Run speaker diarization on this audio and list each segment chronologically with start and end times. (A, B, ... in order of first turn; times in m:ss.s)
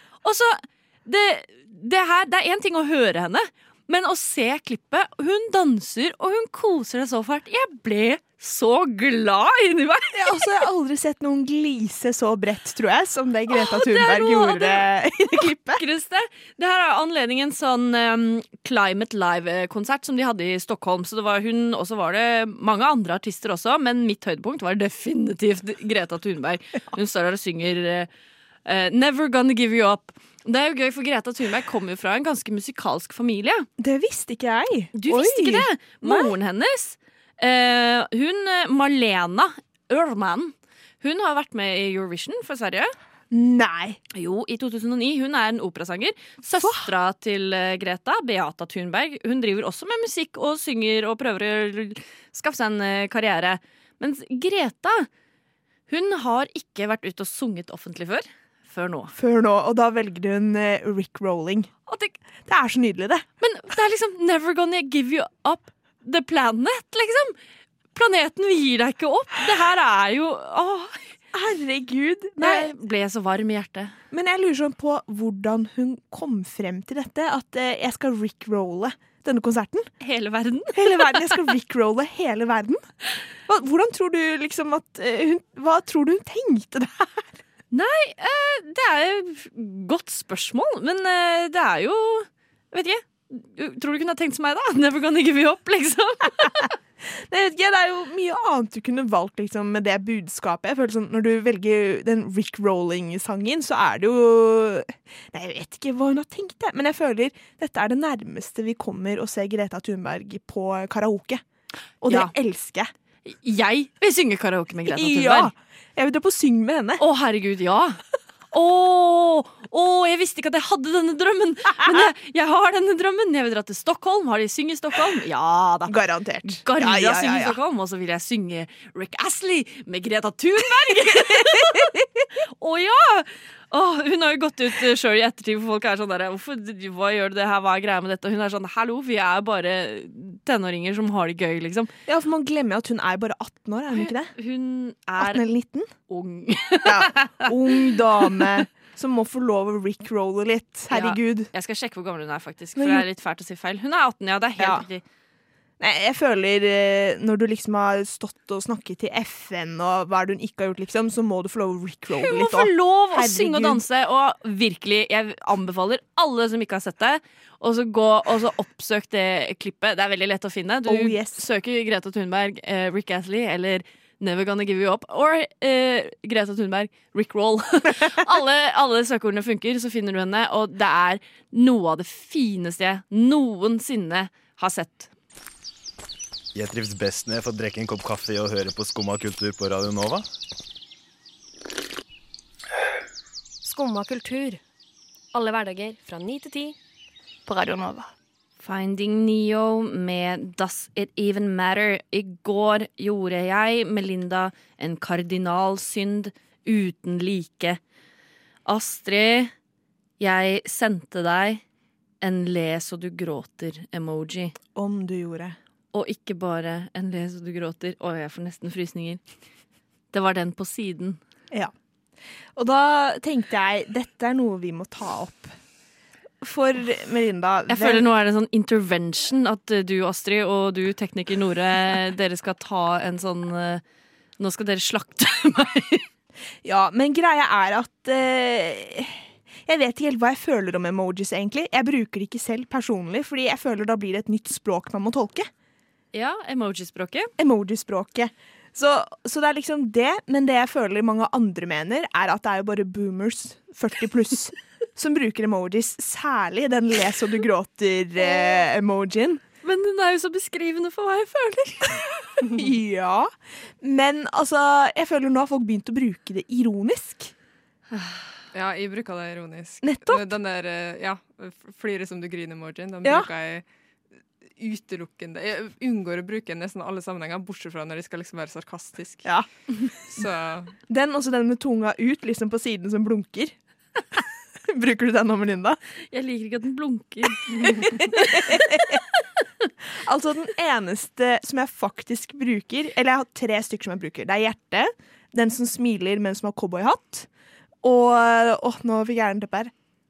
0:00.2-0:10.4 A
0:10.1-0:15.8 B
0:13.5-0:14.8 A
0:15.7-0:28.1 A
0:28.6-0:33.7 A
0:33.8-0:36.3 B
0:34.9-0:42.9 A
0:43.3-0:44.0 B
0:44.1-0:55.1 A
0:46.6-0:46.9 B
0:55.9-0:59.1 A
0:59.1-1:01.7 B
1:01.9-1:02.2 A
1:02.4-1:03.2 B
1:03.4-1:07.4 A
1:07.9-1:11.0 A
1:11.3-1:12.7 B
1:12.4-1:14.0 A
1:14.1-1:19.9 B
1:20.0-1:21.3 A
1:20.7-1:22.8 B
1:23.4-1:27.3 B
1:27.7-1:36.7 A
1:37.1-1:51.4 B
1:52.0-1:52.9 B
1:52.1-1:52.3 A
1:53.2-1:55.5 A
1:54.9-1:57.0 B
1:57.0-1:58.0 A
1:58.5-2:05.9 A
2:05.9-2:07.6 B
2:06.6-2:21.9 A
2:11.1-2:12.1 B
2:22.0-2:24.3 B
2:23.9-2:25.4 A
2:25.2-2:25.9 B
2:26.1-2:28.5 A
2:26.8-2:31.5 B
2:30.9-2:35.0 A
2:32.8-2:33.0 B
2:34.6-2:34.8 B
2:35.8-2:43.8 B
2:42.1-3:05.1 A
2:50.8-2:51.4 B
3:06.5-3:10.3 C
3:13.6-3:14.6 D
3:15.3-3:16.8 D
3:17.4-3:18.1 D
3:18.6-3:27.8 A
3:28.6-3:29.5 A
3:30.2-3:31.6 A
3:32.2-3:34.6 A
3:34.7-3:35.6 B
3:35.9-3:39.2 A
3:40.1-3:41.2 A
3:42.6-3:45.5 B
3:46.4-3:48.0 B
3:47.7-3:53.8 A
3:54.4-3:56.0 A
3:56.6-4:05.5 B
4:06.1-4:07.3 A
4:07.4-4:19.4 B
4:19.6-4:22.0 A
4:22.4-4:27.3 B
4:28.5-4:33.6 E
4:29.8-4:30.3 B
4:33.0-4:33.3 B
4:34.6-4:39.3 E
4:40.1-4:40.7 E
4:40.9-4:43.5 B
4:44.6-4:45.8 B
4:46.1-4:48.5 A
4:47.5-4:49.0 B
4:49.9-4:57.3 B
4:57.8-4:59.7 B